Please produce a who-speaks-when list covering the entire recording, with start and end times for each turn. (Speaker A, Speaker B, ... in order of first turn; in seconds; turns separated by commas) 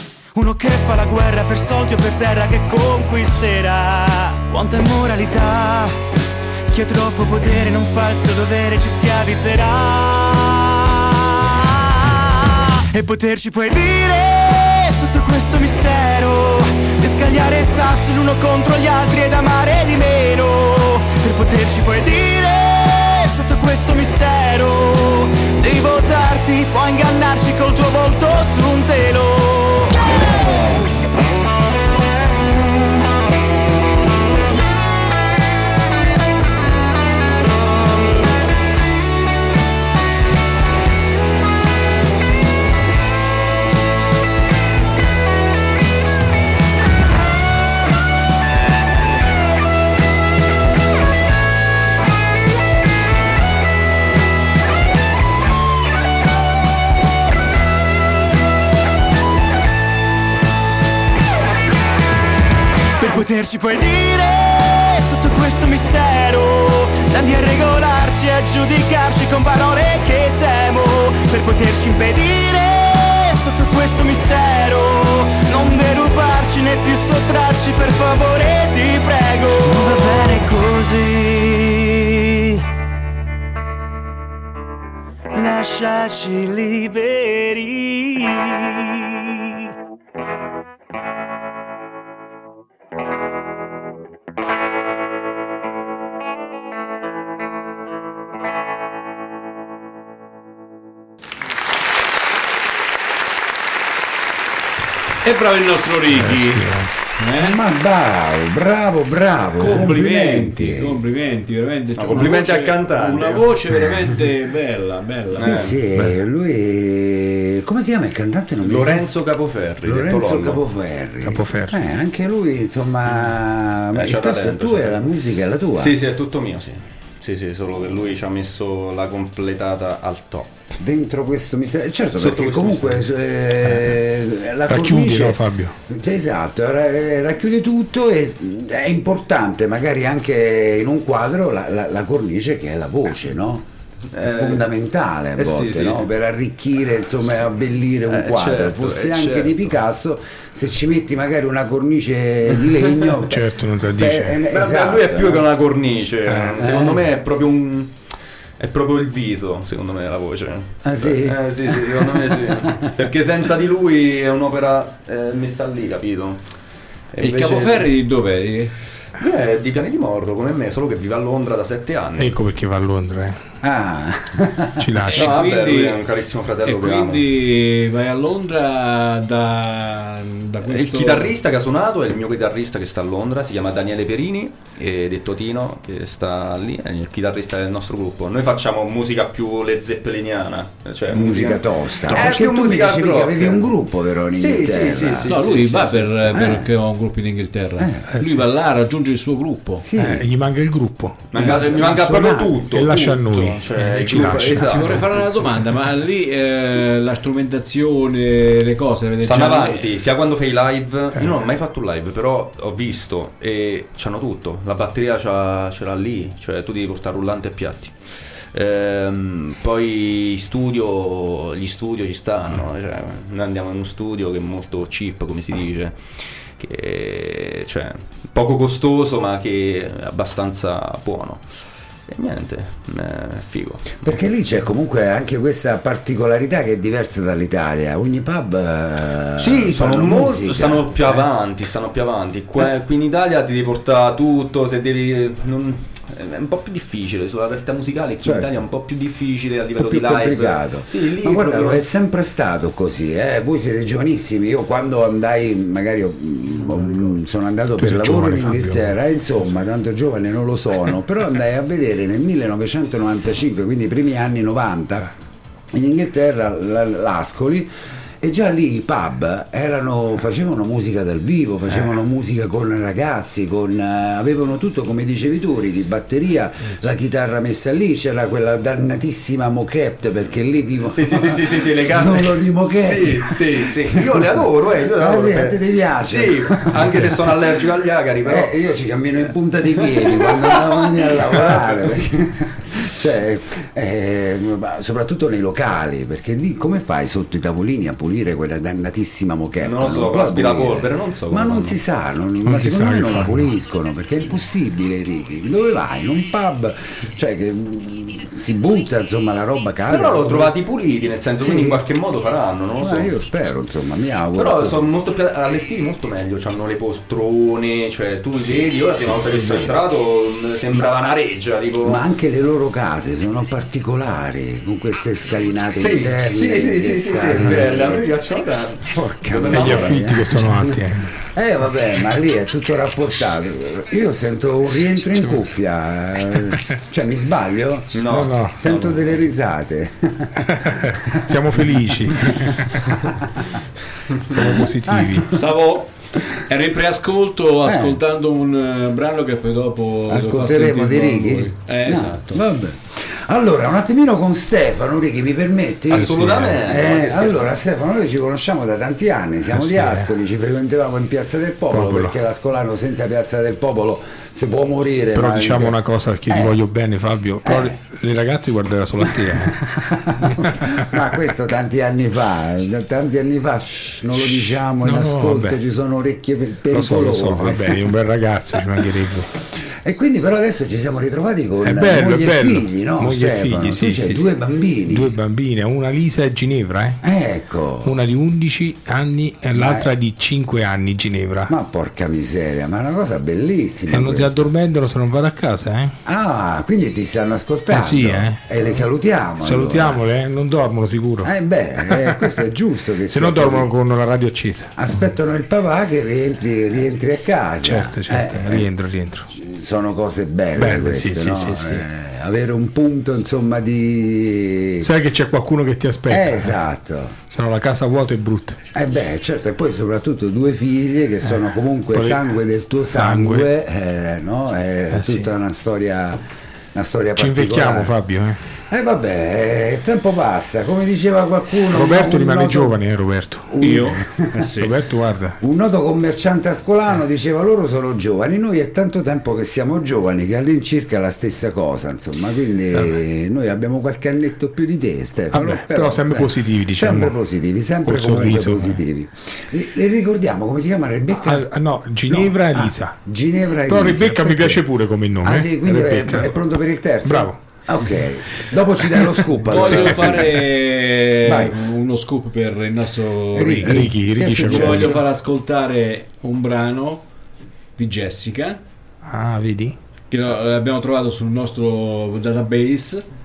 Speaker A: 0.3-6.0, Speaker A: 6.7-30.0, Speaker A: 63.0-82.6, Speaker A: 85.3-89.6, Speaker B: 105.2-107.6, Speaker C: 106.1-106.9, Speaker D: 107.3-111.0, Speaker B: 109.6-115.8, Speaker E: 112.0-113.5, Speaker D: 115.4-119.0, Speaker E: 115.4-115.8, Speaker E: 118.6-120.6, Speaker D: 119.8-126.0, Speaker C: 121.2-121.8, Speaker E: 123.9-125.1, Speaker E: 125.7-130.6, Speaker D: 130.8-143.6, Speaker E: 132.2-133.1, Speaker C: 134.7-135.8, Speaker E: 144.1-144.7, Speaker D: 144.2-155.4, Speaker E: 145.4-146.1, Speaker E: 148.1-149.8, Speaker E: 152.6-153.2, Speaker C: 153.3-154.4, Speaker E: 154.5-157.9, Speaker C: 156.3-156.6, Speaker D: 156.6-157.0, Speaker E: 158.6-166.4, Speaker D: 160.8-162.9, Speaker E: 167.1-167.9, Speaker B: 167.2-168.7, Speaker E: 169.2-172.4, Speaker C: 172.2-173.4, Speaker D: 173.6-175.0, Speaker C: 174.8-175.3, Speaker B: 175.1-176.0, Speaker E: 175.1-177.2, Speaker B: 176.6-181.3, Speaker E: 180.6-193.7, Speaker D: 191.1-195.3, Speaker E: 194.3-196.5, Speaker B: 195.3-199.9, Speaker D: 196.3-196.7, Speaker D: 197.8-198.5, Speaker D: 199.8-200.3, Speaker C: 200.0-201.3, Speaker E: 201.3-205.1, Speaker D: 201.4-203.0, Speaker C: 202.7-205.2, Speaker B: 204.6-209.9, Speaker E: 209.2-217.9, Speaker E: 218.5-231.4, Speaker E: 232.1-234.0, Speaker D: 234.0-241.3, Speaker E: 239.4-251.8, Speaker D: 248.2-248.5, Speaker D: 249.8-265.1, Speaker C: 257.8-258.9, Speaker D: 265.7-287.6, Speaker E: 280.8-288.6, Speaker D: 288.2-310.5, Speaker E: 289.8-291.9, Speaker E: 299.6-301.8, Speaker C: 302.4-303.5, Speaker E: 309.9-313.1, Speaker D: 311.4-311.8, Speaker D: 312.8-314.9, Speaker E: 314.3-322.0, Speaker D: 318.4-319.8, Speaker D: 320.7-321.1, Speaker D: 321.8-328.1, Speaker E: 325.8-330.1, Speaker D: 328.8-343.2, Speaker C: 329.5-331.1, Speaker C: 335.2-335.4, Speaker E: 337.9-339.2, Speaker C: 338.1-338.6, Speaker C: 340.6-343.0, Speaker C: 344.3-345.4, Speaker D: 344.4-345.4, Speaker B: 345.3-352.4, Speaker D: 347.6-348.0, Speaker D: 350.1-365.8, Speaker E: 355.9-357.6, Speaker C: 355.9-356.6, Speaker C: 359.5-360.1, Speaker C: 361.7-362.2, Speaker C: 365.1-371.0, Speaker D: 366.3-366.6, Speaker D: 367.4-367.8, Speaker D: 369.0-377.8, Speaker C: 374.2-375.6, Speaker C: 376.7-379.3, Speaker D: 379.5-385.1, Speaker C: 381.6-384.3, Speaker C: 384.9-387.0, Speaker D: 387.0-388.0, Speaker C: 387.8-391.5, Speaker D: 389.5-389.9, Speaker D: 391.5-394.5, Speaker C: 393.9-396.0, Speaker D: 396.1-400.0, Speaker C: 397.7-398.4, Speaker C: 399.4-401.3, Speaker D: 401.2-403.7, Speaker C: 401.8-402.4, Speaker C: 403.1-404.7, Speaker D: 404.8-408.7, Speaker C: 407.6-409.3, Speaker D: 409.3-414.9, Speaker C: 410.6-411.8, Speaker C: 414.8-416.6, Speaker D: 416.1-417.2, Speaker C: 417.3-418.6, Speaker D: 418.7-427.9, Speaker C: 421.3-422.2, Speaker C: 422.9-423.5, Speaker C: 424.9-425.3, Speaker C: 427.2-428.4, Speaker D: 428.7-432.8, Speaker C: 431.7-433.6, Speaker D: 433.5-434.5, Speaker B: 433.6-434.7, Speaker C: 434.6-435.4, Speaker D: 435.4-451.5, Speaker C: 445.3-447.1, Speaker C: 447.8-448.8, Speaker C: 451.2-453.0, Speaker D: 452.1-454.6, Speaker C: 453.6-456.4, Speaker D: 455.2-460.3, Speaker C: 457.0-457.4, Speaker C: 458.9-460.3, Speaker B: 459.5-463.9, Speaker D: 461.2-461.6, Speaker D: 463.3-465.0, Speaker C: 463.6-464.9, Speaker B: 464.4-467.0, Speaker B: 467.8-468.6, Speaker C: 469.0-469.8, Speaker B: 470.1-473.1